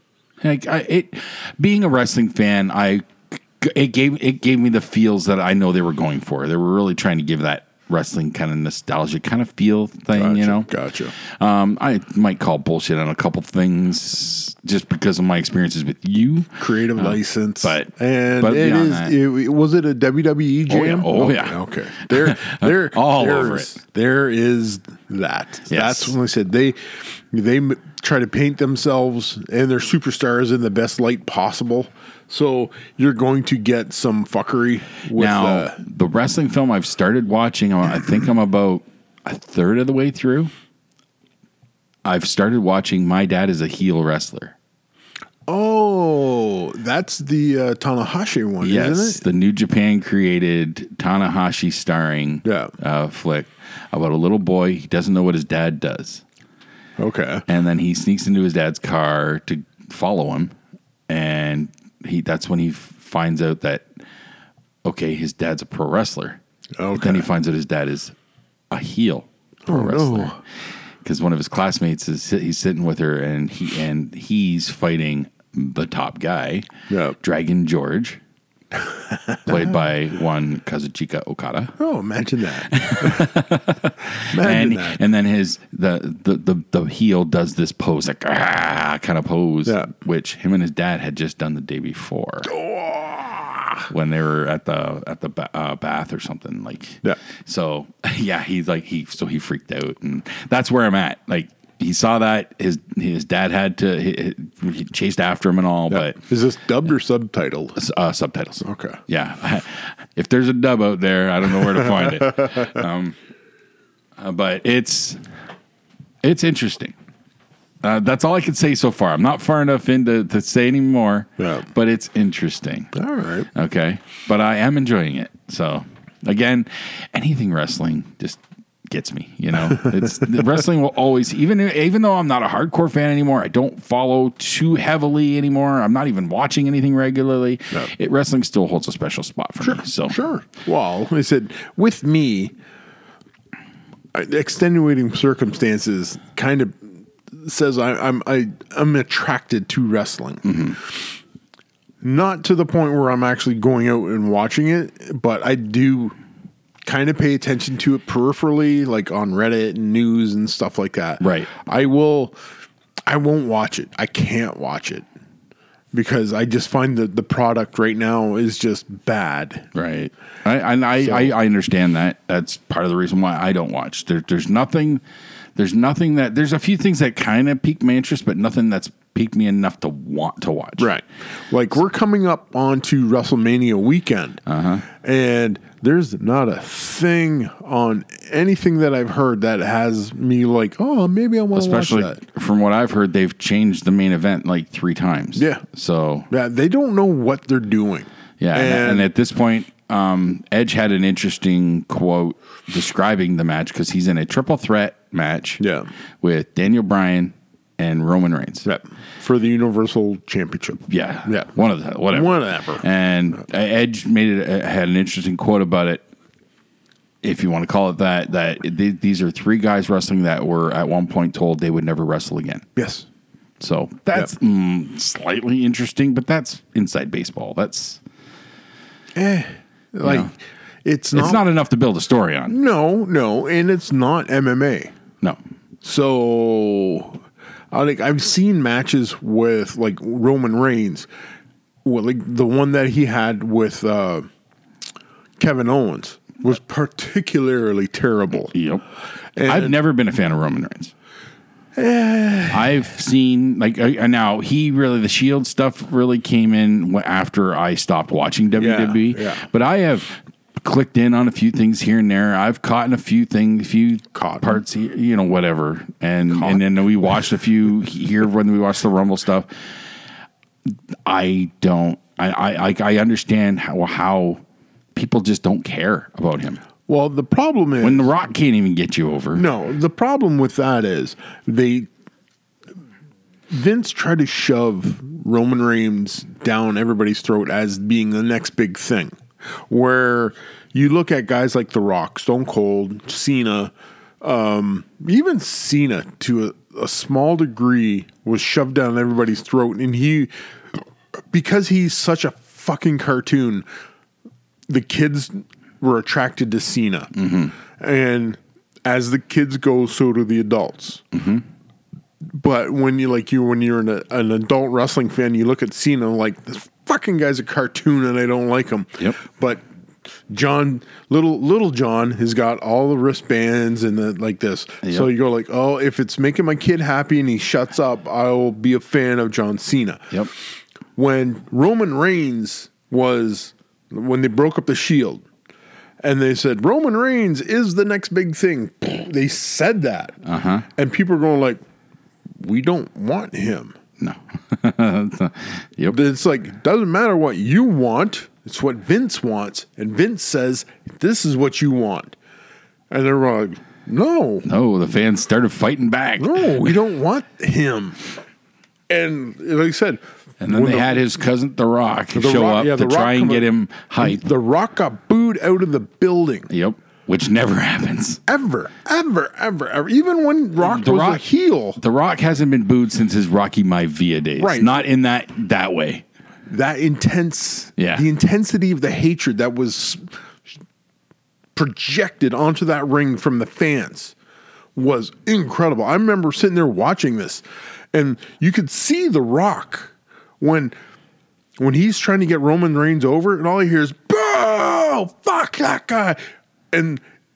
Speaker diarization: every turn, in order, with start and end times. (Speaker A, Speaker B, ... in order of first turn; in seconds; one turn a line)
Speaker A: 0.4-19.1
Speaker B: 10.1-11.1
Speaker B: 16.6-35.8
Speaker A: 20.7-23.7
Speaker A: 25.7-26.1
Speaker A: 35.1-40.5
Speaker A: 42.0-44.5
Speaker B: 45.5-49.2
Speaker A: 48.6-56.2
Speaker B: 52.5-52.7
Speaker B: 57.0-57.5
Speaker A: 57.5-60.5
Speaker A: 61.1-63.9
Speaker A: 64.8-66.4
Speaker B: 66.8-67.3
Speaker A: 66.9-68.1
Speaker A: 68.7-70.4
Speaker B: 69.7-70.4
Speaker A: 71.0-76.7
Speaker B: 76.9-77.2
Speaker A: 77.2-78.2
Speaker A: 79.5-81.8
Speaker B: 81.8-83.3
Speaker A: 82.7-92.5
Speaker B: 84.3-85.0
Speaker B: 92.5-93.9
Speaker A: 93.9-106.2
Speaker B: 105.9-107.8
Speaker A: 107.8-113.2
Speaker B: 108.6-109.0
Speaker A: 114.2-115.2
Speaker A: 116.2-117.0
Speaker A: 117.8-122.9
Speaker B: 121.4-121.7
Speaker B: 123.0-123.5
Speaker A: 123.5-140.2
Speaker B: 139.6-142.5
Speaker B: 144.1-150.9
Speaker A: 150.4-150.8
Speaker B: 152.0-156.2
Speaker B: 156.8-162.3
Speaker A: 161.2-161.5
Speaker B: 163.1-165.1
Speaker B: 165.9-169.7
Speaker A: 169.8-175.0
Speaker B: 171.0-171.3
Speaker A: 175.6-180.9
Speaker B: 180.8-192.2
Speaker A: 184.5-184.8
Speaker A: 191.5-196.3
Speaker B: 195.4-195.6
Speaker B: 196.3-199.1
Speaker A: 198.4-205.6
Speaker B: 205.6-205.9
Speaker A: 206.2-208.7
Speaker B: 208.6-211.5
Speaker A: 210.9-216.1
Speaker B: 212.1-212.8
Speaker A: 217.2-222.7
Speaker B: 222.8-223.1
Speaker A: 223.6-228.0
Speaker B: 229.2-231.5
Speaker A: 230.0-230.3
Speaker A: 231.1-232.6
Speaker B: 232.5-234.9
Speaker B: 235.8-241.1
Speaker B: 241.8-244.3
Speaker B: 245.4-248.5
Speaker A: 248.5-248.8
Speaker B: 249.3-249.7
Speaker A: 249.4-250.9
Speaker B: 251.8-252.8
Speaker A: 252.5-269.5
Speaker B: 258.6-259.5
Speaker B: 264.1-264.6
Speaker B: 266.3-266.6
Speaker A: 271.1-274.4
Speaker A: 274.9-276.6
Speaker B: 276.9-278.1
Speaker A: 277.8-279.4
Speaker B: 279.3-281.9
Speaker B: 283.5-300.8
Speaker B: 301.3-303.6
Speaker B: 304.7-307.1
Speaker A: 307.1-307.6
Speaker B: 307.6-311.0
Speaker A: 311.1-311.4
Speaker B: 312.3-319.6
Speaker B: 320.3-330.1
Speaker A: 324.8-325.1
Speaker B: 330.9-335.2
Speaker B: 336.0-340.2
Speaker A: 340.2-340.7
Speaker B: 340.8-341.6
Speaker B: 342.4-343.8
Speaker A: 344.0-346.0
Speaker B: 345.9-352.1
Speaker B: 352.9-354.5
Speaker A: 354.4-356.7
Speaker B: 356.2-358.0
Speaker B: 358.9-361.1
Speaker A: 360.4-364.2
Speaker B: 362.1-366.5
Speaker A: 366.5-368.2
Speaker B: 368.3-371.8
Speaker A: 370.6-371.2
Speaker A: 371.8-376.0
Speaker B: 374.4-374.8
Speaker B: 376.5-380.1
Speaker A: 377.8-378.0
Speaker B: 381.6-384.1
Speaker B: 384.8-390.7
Speaker B: 391.6-396.2
Speaker B: 396.7-397.0